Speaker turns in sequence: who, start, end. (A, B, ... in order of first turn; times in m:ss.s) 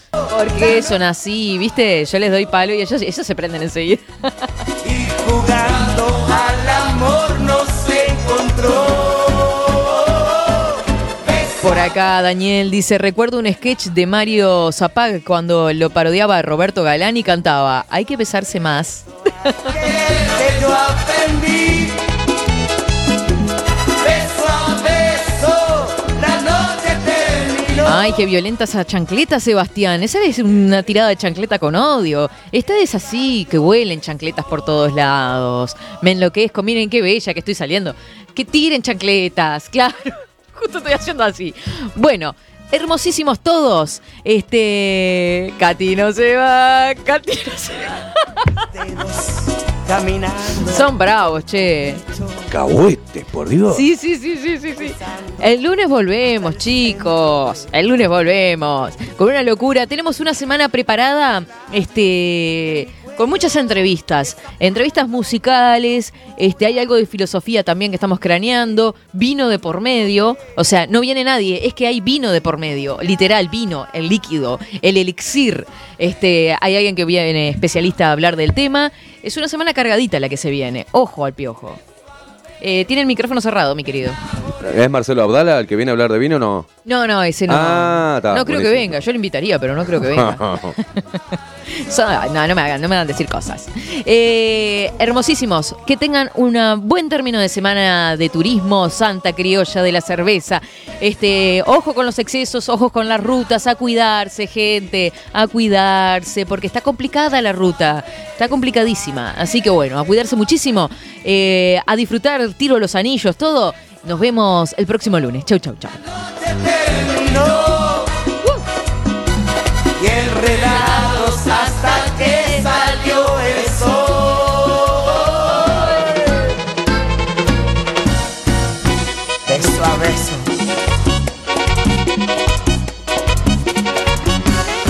0:00.3-0:04.0 A
0:04.8-0:09.9 B
0:11.6-0:19.1 A
0:20.1-0:21.9 B
0:24.1-0:27.9 B
0:27.8-0:48.1 A
0:48.9-0:49.3 B
0:49.8-0:50.8 B
0:50.6-0:52.0 A
0:52.5-0:53.8 C
0:53.7-1:21.8 A
1:22.6-1:24.2 A
1:24.6-1:26.7 C
1:26.8-1:56.0 A
1:27.5-1:29.0 C
1:30.0-1:30.8 C
1:56.6-1:58.0 B
2:00.0-2:05.9 B
2:09.5-2:10.4 B